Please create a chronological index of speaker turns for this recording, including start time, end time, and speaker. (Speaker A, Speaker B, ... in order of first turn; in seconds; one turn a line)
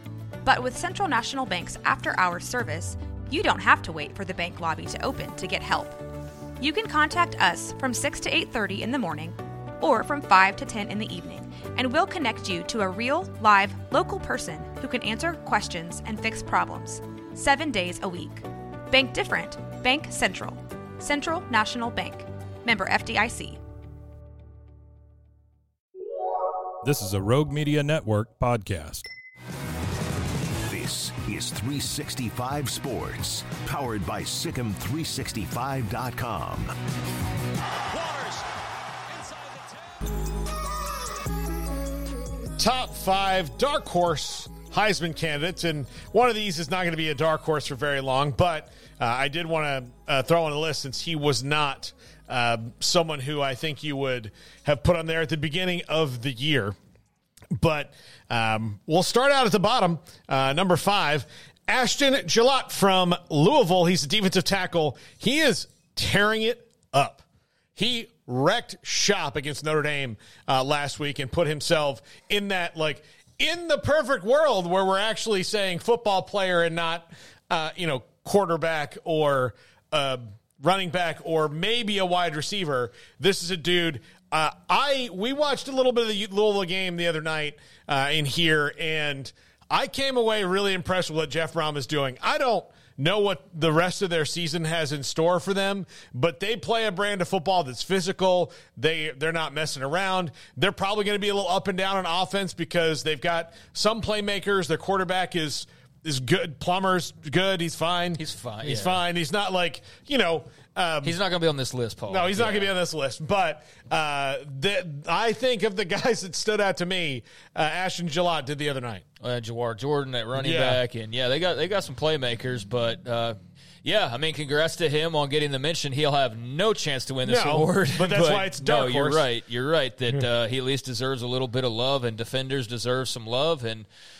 Speaker A: 0.5-6.0
Speaker A: 6.6-23.6
Speaker B: 26.8-29.1
Speaker C: 30.7-36.7
Speaker B: 38.0-38.4
Speaker D: 42.6-56.8
Speaker D: 57.5-67.2
Speaker D: 67.8-111.2
Speaker E: 108.2-109.0
Speaker E: 111.0-112.7
Speaker D: 112.1-119.0
Speaker E: 119.2-133.9
Speaker D: 120.4-120.8
Speaker D: 127.2-129.2